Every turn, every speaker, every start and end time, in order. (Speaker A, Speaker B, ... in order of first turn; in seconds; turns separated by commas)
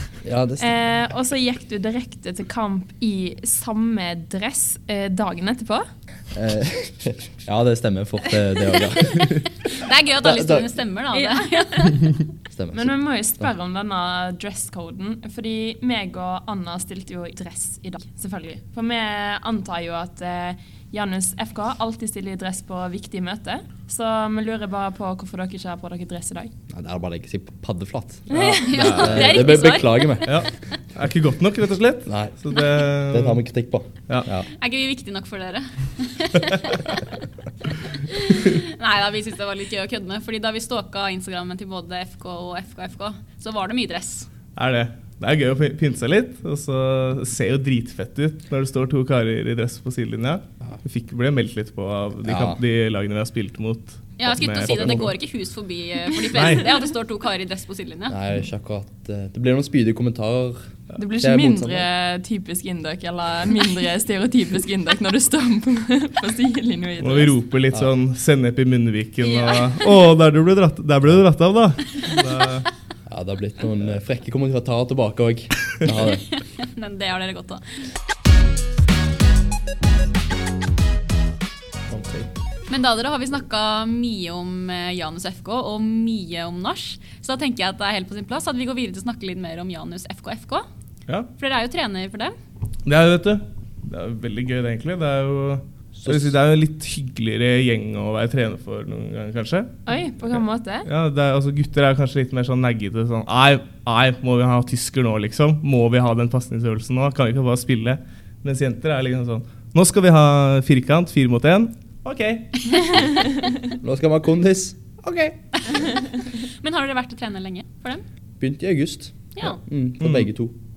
Speaker A: 0.2-0.7, Speaker B: 0.6-5.8, Speaker A: 6.3-10.7, Speaker C: 9.7-12.2, Speaker B: 11.1-11.7, Speaker A: 12.5-13.5, Speaker B: 12.7-26.5, Speaker A: 26.7-30.5, Speaker B: 28.3-29.0, Speaker D: 28.4-29.4, Speaker C: 28.6-30.4, Speaker D: 30.2-33.4, Speaker A: 32.1-32.4, Speaker A: 33.1-34.5, Speaker C: 34.6-37.0, Speaker C: 38.1-44.3, Speaker D: 44.6-55.1, Speaker A: 52.2-52.6, Speaker C: 54.2-58.2, Speaker A: 54.6-55.1, Speaker D: 56.3-56.7, Speaker A: 58.1-61.9, Speaker B: 61.0-67.4, Speaker D: 67.0-72.7, Speaker C: 69.2-69.8, Speaker A: 73.1-76.2, Speaker C: 75.9-77.9, Speaker A: 81.9-82.3, Speaker C: 82.7-90.7, Speaker C: 91.4-92.3, Speaker D: 92.8-99.8, Speaker A: 96.0-96.3, Speaker B: 99.9-100.9, Speaker D: 100.8-112.9, Speaker A: 113.8-114.8, Speaker D: 115.0-115.3, Speaker C: 115.7-118.0, Speaker A: 118.4-120.5, Speaker D: 120.0-120.3